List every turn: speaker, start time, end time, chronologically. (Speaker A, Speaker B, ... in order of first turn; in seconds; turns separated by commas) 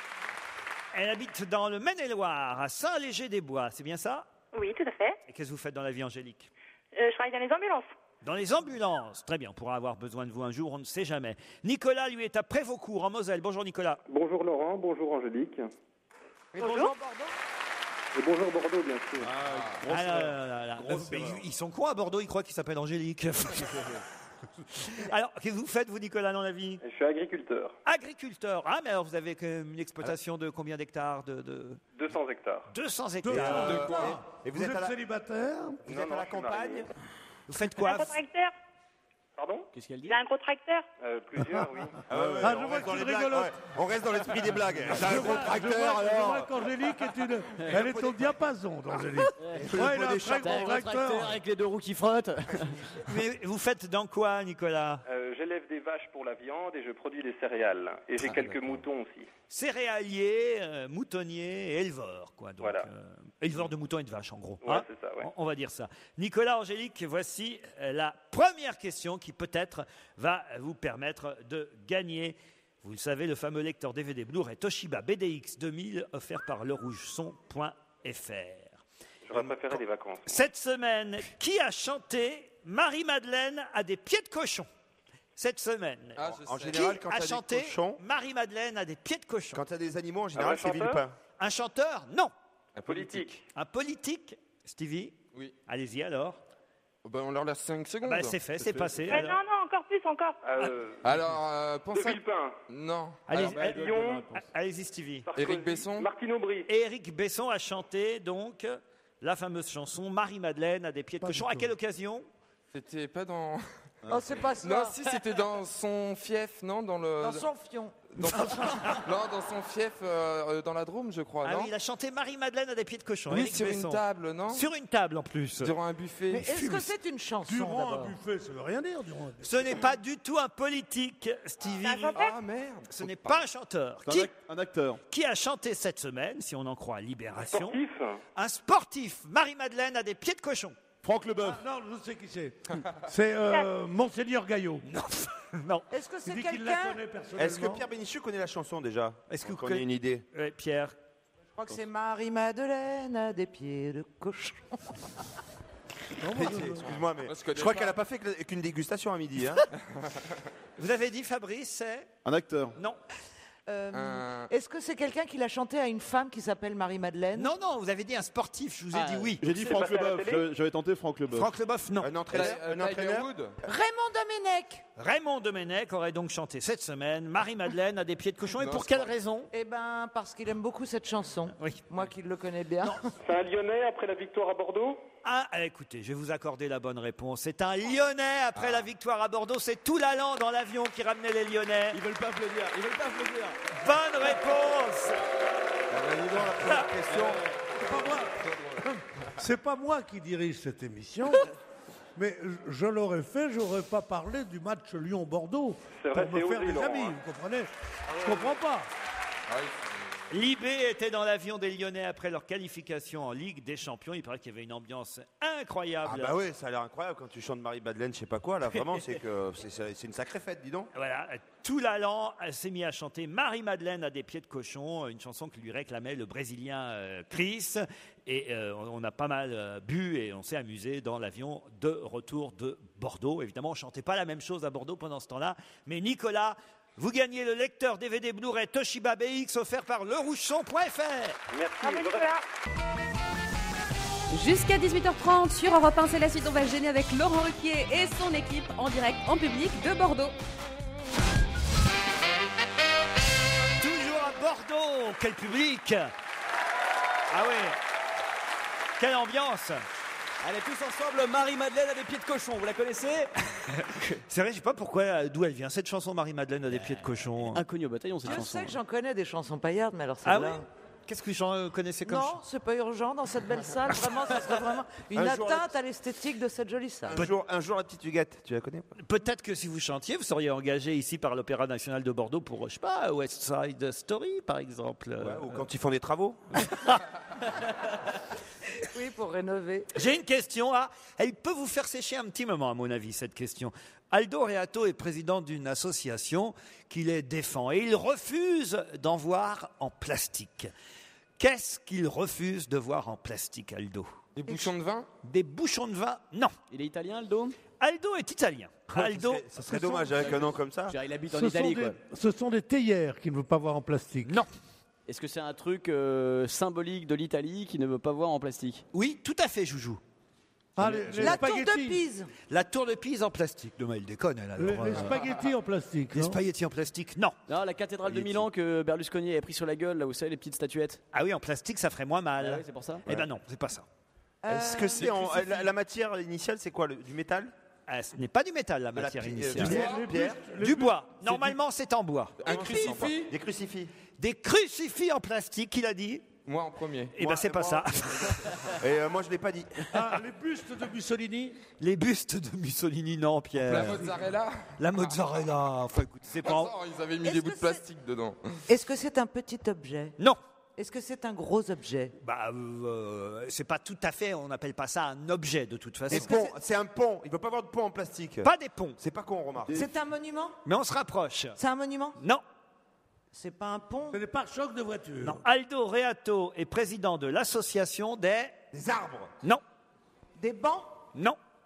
Speaker A: 0.9-4.3, Speaker B: 4.5-5.2, Speaker A: 5.3-6.5, Speaker B: 7.0-7.9, Speaker A: 8.2-14.0, Speaker C: 14.1-15.7, Speaker D: 16.6-17.3, Speaker B: 16.6-16.9, Speaker C: 18.1-19.3, Speaker E: 19.2-21.5, Speaker F: 19.5-19.8, Speaker A: 19.9-23.9, Speaker A: 24.7-26.8, Speaker C: 26.8-27.8, Speaker A: 27.9-31.8, Speaker C: 32.0-32.7, Speaker A: 32.7-34.0, Speaker G: 33.2-35.9, Speaker H: 33.3-35.0, Speaker F: 33.6-34.1, Speaker C: 35.9-36.9, Speaker H: 35.9-36.9, Speaker A: 37.5-38.2, Speaker B: 37.8-38.5, Speaker C: 39.4-39.7, Speaker I: 39.7-40.2, Speaker B: 40.1-40.9, Speaker C: 41.0-42.0, Speaker G: 41.4-41.7, Speaker H: 42.1-46.5, Speaker E: 42.1-42.5, Speaker G: 42.4-43.6, Speaker G: 44.9-51.4, Speaker H: 47.7-48.2, Speaker I: 49.4-52.9, Speaker H: 49.5-51.0, Speaker A: 53.1-55.0, Speaker C: 55.1-59.3, Speaker F: 58.2-58.8, Speaker A: 59.5-78.8, Speaker C: 62.6-62.9, Speaker C: 64.6-65.3, Speaker C: 79.3-80.4, Speaker H: 79.3-79.8, Speaker A: 80.2-84.7, Speaker A: 85.4-89.6, Speaker F: 86.2-87.3, Speaker H: 86.4-88.0, Speaker H: 89.5-91.2, Speaker C: 90.3-91.0, Speaker A: 91.4-92.3, Speaker F: 92.8-93.4, Speaker C: 92.9-93.4, Speaker A: 93.5-95.2, Speaker A: 95.7-96.4, Speaker F: 97.0-99.1, Speaker A: 98.0-99.4, Speaker E: 98.6-99.0, Speaker B: 99.1-100.4, Speaker C: 100.4-101.0, Speaker F: 101.0-103.2, Speaker C: 101.9-102.6, Speaker A: 103.3-105.3, Speaker E: 103.3-104.5, Speaker C: 103.4-104.2, Speaker C: 105.3-106.7, Speaker F: 105.3-106.1, Speaker A: 106.7-112.3, Speaker G: 111.2-111.7, Speaker F: 112.7-113.9, Speaker E: 114.0-114.4, Speaker D: 114.1-115.0, Speaker F: 114.6-117.5, Speaker D: 117.2-118.5, Speaker F: 118.1-121.7, Speaker A: 118.4-119.0, Speaker A: 121.4-125.7, Speaker F: 123.3-124.7, Speaker F: 125.6-126.7, Speaker D: 126.3-128.2, Speaker G: 127.5-129.8, Speaker A: 129.4-132.3, Speaker B: 131.8-132.4, Speaker F: 131.9-133.4, Speaker A: 132.9-134.3, Speaker E: 134.1-135.0, Speaker A: 135.1-137.8, Speaker C: 137.5-138.2, Speaker A: 138.3-140.8, Speaker E: 141.0-141.6, Speaker G: 141.4-144.8, Speaker A: 144.9-145.9, Speaker D: 145.9-147.0, Speaker G: 146.2-147.8, Speaker H: 147.4-150.2, Speaker A: 149.3-151.0, Speaker D: 151.6-154.8, Speaker G: 156.2-157.1, Speaker H: 156.3-159.7, Speaker F: 157.2-158.0, Speaker A: 160.8-162.1, Speaker E: 162.2-162.8, Speaker D: 163.7-167.5, Speaker F: 163.9-164.5, Speaker A: 167.3-169.4, Speaker I: 168.9-169.5, Speaker E: 169.4-171.5, Speaker C: 169.5-170.5, Speaker A: 171.3-172.5, Speaker H: 172.0-173.3, Speaker F: 172.3-173.6, Speaker D: 173.6-174.8, Speaker A: 175.0-179.5, Speaker F: 178.6-179.1, Speaker D: 179.5-183.0, Speaker A: 181.6-181.8, Speaker C: 183.2-185.0, Speaker A: 185.2-192.0, Speaker F: 188.6-188.9, Speaker I: 191.9-193.6, Speaker A: 193.8-195.2, Speaker H: 195.9-197.5, Speaker I: 197.1-197.4, Speaker G: 197.8-201.5, Speaker G: 202.2-208.9, Speaker C: 206.0-207.2, Speaker F: 209.5-210.2, Speaker A: 210.3-216.3, Speaker H: 216.1-220.9, Speaker A: 220.9-241.4, Speaker C: 241.5-242.3, Speaker B: 241.8-242.4, Speaker J: 244.3-250.3, Speaker A: 253.8-256.1, Speaker A: 257.3-257.8, Speaker A: 259.0-259.8, Speaker I: 260.4-263.3, Speaker A: 264.3-267.6, Speaker I: 266.7-268.8, Speaker D: 268.2-270.6, Speaker A: 270.2-272.4, Speaker D: 272.1-277.2, Speaker H: 275.1-275.7, Speaker H: 277.1-278.9, Speaker A: 279.0-285.6, Speaker H: 285.2-286.7, Speaker A: 286.7-287.0, Speaker D: 288.9-289.9, Speaker A: 289.9-300.7, Speaker A: 301.4-304.2, Speaker F: 304.4-305.1, Speaker A: 305.2-306.6, Speaker I: 306.7-307.6, Speaker A: 307.8-309.5, Speaker H: 308.9-311.0, Speaker I: 310.9-312.0, Speaker G: 311.3-314.4, Speaker I: 315.1-318.9, Speaker A: 318.9-320.0, Speaker G: 320.8-322.0, Speaker A: 320.8-321.4, Speaker D: 321.2-322.3, Speaker A: 322.5-325.2, Speaker G: 324.6-326.4, Speaker A: 326.1-327.4, Speaker I: 327.5-331.0, Speaker A: 331.1-333.9, Speaker I: 332.4-333.0, Speaker D: 334.4-335.7, Speaker H: 334.5-337.5, Speaker A: 337.9-339.9, Speaker H: 339.0-340.4, Speaker G: 339.5-341.6, Speaker F: 339.7-340.0, Speaker A: 340.6-342.4, Speaker F: 342.4-343.3, Speaker H: 342.4-343.9, Speaker A: 344.2-346.3, Speaker F: 346.5-347.1, Speaker A: 347.1-348.7, Speaker H: 347.2-350.1, Speaker G: 349.9-351.6, Speaker A: 351.8-354.1, Speaker F: 353.7-355.4, Speaker G: 353.7-354.1, Speaker A: 354.8-356.7, Speaker F: 356.4-358.4, Speaker D: 357.2-357.9, Speaker D: 358.7-360.2, Speaker D: 360.8-362.1, Speaker A: 362.2-366.4, Speaker H: 366.1-369.9, Speaker D: 366.1-366.5, Speaker A: 368.4-369.0, Speaker D: 369.7-370.6, Speaker A: 370.6-371.6, Speaker D: 371.6-372.2, Speaker A: 372.2-372.4, Speaker D: 373.3-374.2, Speaker G: 374.1-375.4, Speaker A: 375.2-378.6, Speaker H: 378.7-379.3, Speaker D: 380.4-380.9